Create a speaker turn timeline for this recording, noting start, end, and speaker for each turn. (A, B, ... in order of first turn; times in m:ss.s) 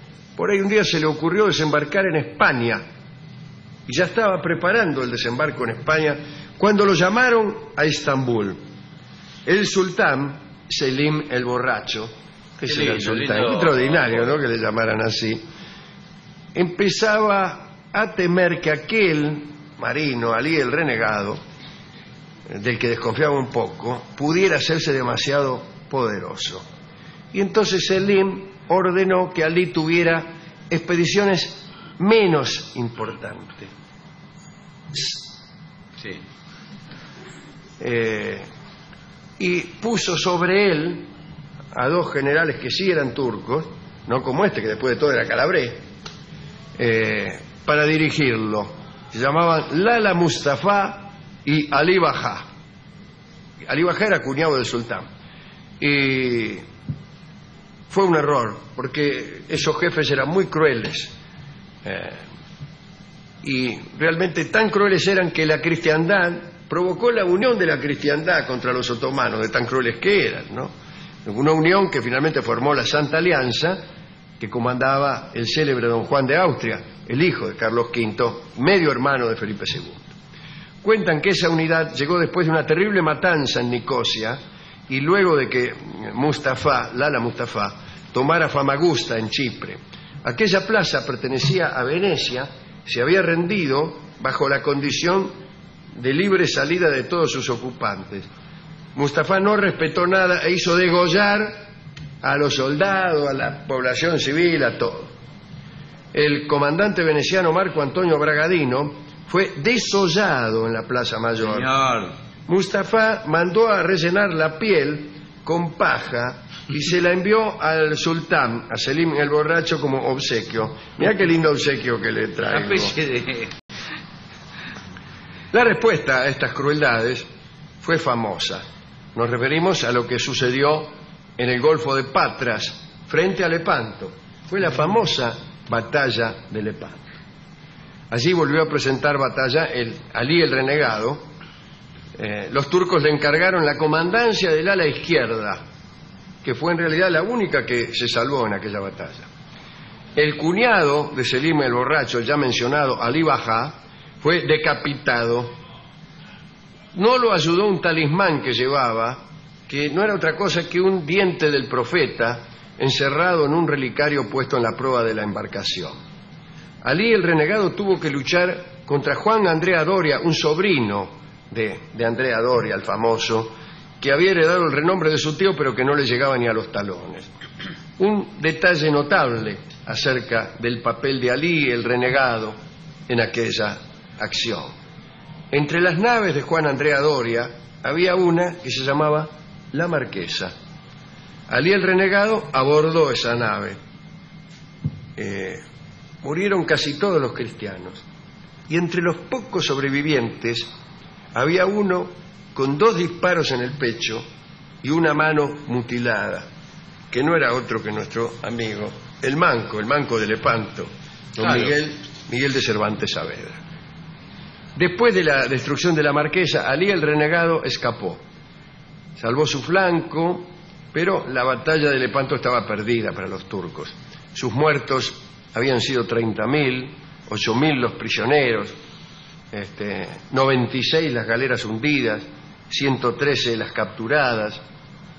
0:00.4-0:02.8 A
0:03.9-0:08.6 A
0:09.5-0:15.4 A
0:12.6-0:14.4 B
0:16.5-0:21.4 A
0:22.5-0:26.6 A
0:27.3-0:33.7 A
0:34.9-0:35.2 A
0:37.8-0:38.5 A
0:39.4-0:41.1 A
0:41.7-0:45.8 A
0:46.8-0:52.5 A
0:53.7-0:55.1 A
0:55.8-0:56.6 A
0:57.9-1:01.1 A
1:01.8-1:02.3 A
1:03.4-1:10.7 A
1:11.2-1:13.8 A
1:14.4-1:20.1 A
1:20.8-1:24.4 A
1:24.9-1:35.3 A
1:36.0-1:38.3 A
1:39.0-1:41.7 A
1:42.2-1:45.1 A
1:46.1-1:51.7 A
1:51.4-1:52.1 B
1:52.5-2:03.0 A
2:02.5-2:03.5 B
2:05.5-2:07.3 A
2:07.8-2:08.6 A
2:09.2-2:17.0 A
2:18.1-2:21.2 A
2:22.2-2:25.6 A
2:26.4-2:29.3 A
2:30.2-2:35.5 A
2:36.9-2:46.0 A
2:46.8-2:57.3 A
2:58.0-3:02.6 A
3:03.1-3:04.8 A
3:05.5-3:10.5 A
3:11.5-3:13.8 A
3:15.2-3:15.6 A
3:16.2-3:18.0 A
3:18.7-3:20.7 A
3:21.3-3:24.2 A
3:24.8-3:26.5 A
3:27.1-3:33.6 A
3:31.4-3:31.7 B
3:34.8-3:38.2 A
3:39.2-3:48.7 A
3:49.5-3:54.6 A